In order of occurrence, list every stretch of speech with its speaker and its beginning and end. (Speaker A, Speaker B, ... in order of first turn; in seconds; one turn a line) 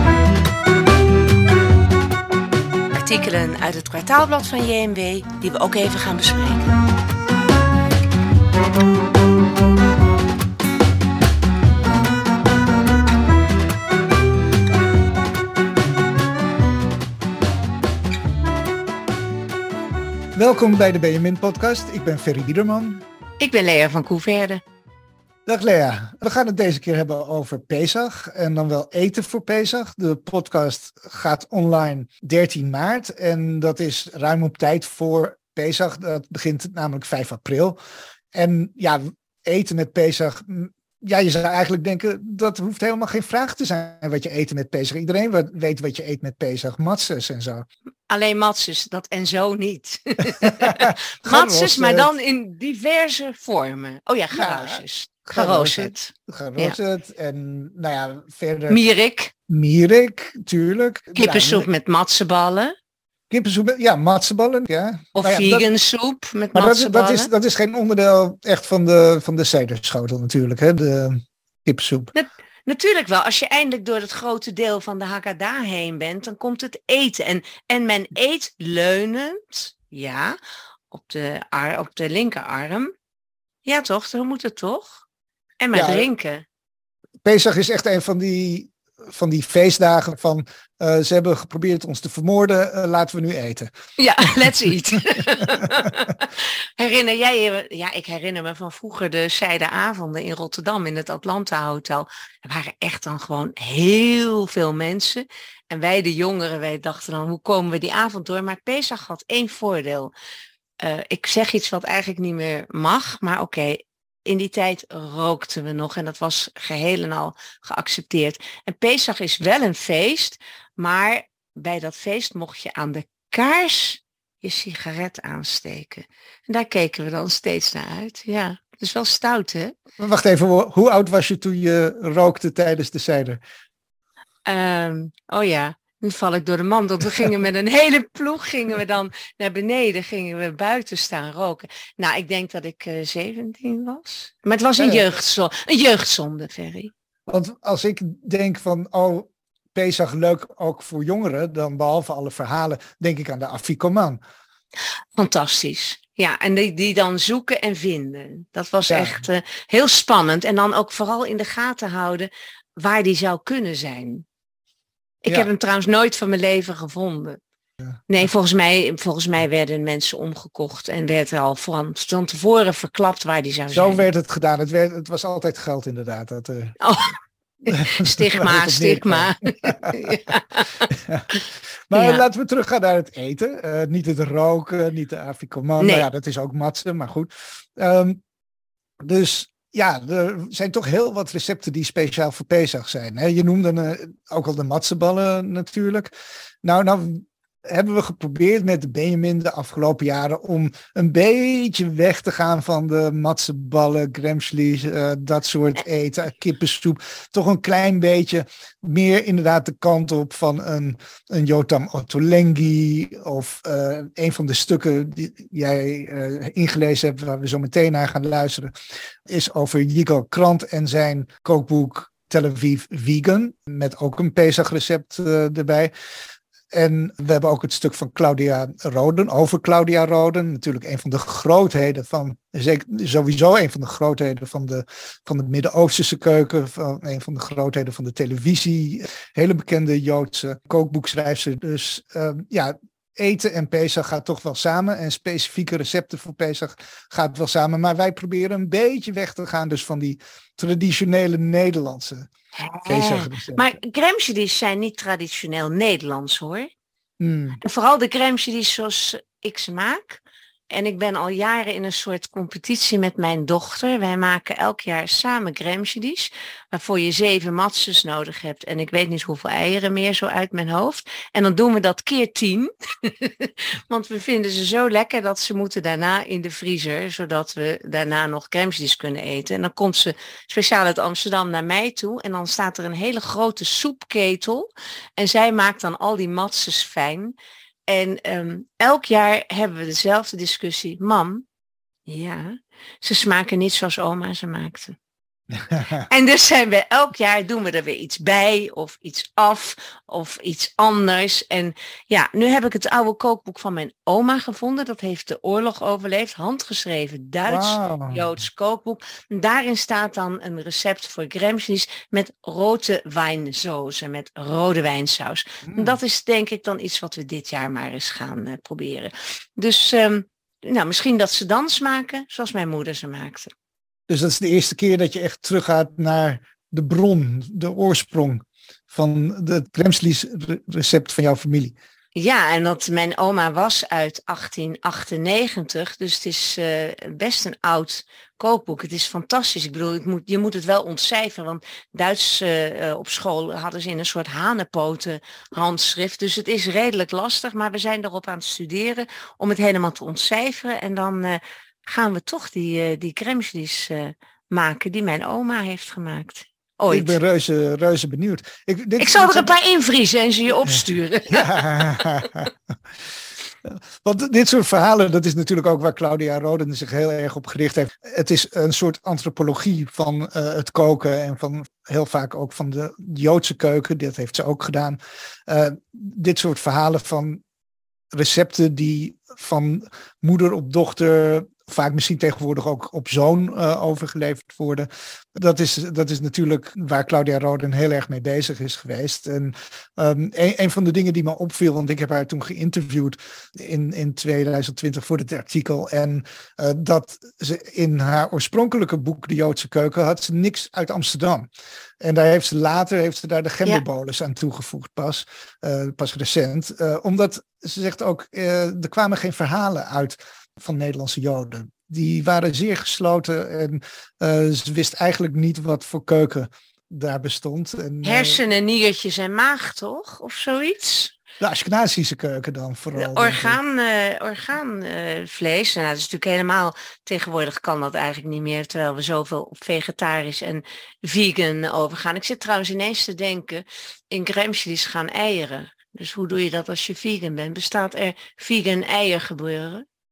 Speaker A: 2.9-6.8
Speaker B: 20.4-23.0
Speaker A: 23.4-24.6
Speaker B: 25.4-37.8
Speaker B: 38.3-47.6
Speaker A: 48.1-56.8
Speaker B: 50.4-52.1
Speaker B: 54.3-58.8
Speaker A: 58.7-59.3
Speaker B: 59.5-61.6
Speaker A: 61.1-62.7
Speaker B: 63.3-65.7
Speaker A: 65.1-67.3
Speaker B: 66.5-72.1
Speaker A: 72.1-80.4
Speaker A: 80.9-82.9
Speaker A: 83.6-85.0
Speaker A: 85.6-86.4
Speaker B: 85.7-86.1
Speaker B: 87.2-93.7
Speaker A: 94.0-110.1
Speaker B: 95.6-95.9
Speaker A: 110.8-129.8
Speaker B: 130.0-133.4
Speaker A: 134.4-146.9
Speaker B: 147.3-154.2
Speaker A: 155.2-164.2
Speaker B: 158.9-159.2
Speaker A: 165.2-167.4
Speaker A: 168.1-174.0
Speaker B: 173.7-176.8
Speaker A: 176.8-181.4
Speaker B: 177.7-180.0
Speaker B: 180.9-181.3
Speaker B: 181.9-188.2
Speaker A: 181.9-182.2
Speaker A: 185.8-186.1
Speaker B: 189.0-196.1
Speaker B: 196.6-218.7
Speaker B: 219.2-225.9
Speaker B: 226.7-252.3
Speaker A: 252.6-256.7
Speaker B: 252.8-253.8
Speaker B: 257.2-257.6
Speaker A: 257.6-287.3
Speaker A: 287.9-291.4
Speaker A: 292.1-295.0
Speaker A: 296.0-323.5
Speaker B: 307.5-308.2
Speaker B: 315.6-316.0
Speaker B: 324.1-331.8
Speaker A: 332.1-357.2
Speaker B: 356.9-359.5
Speaker A: 359.0-362.3
Speaker B: 361.3-362.5
Speaker B: 363.6-377.4
Speaker B: 378.1-401.5
Speaker B: 402.0-418.4
Speaker A: 418.0-421.1
Speaker B: 421.4-423.6
Speaker A: 422.9-439.8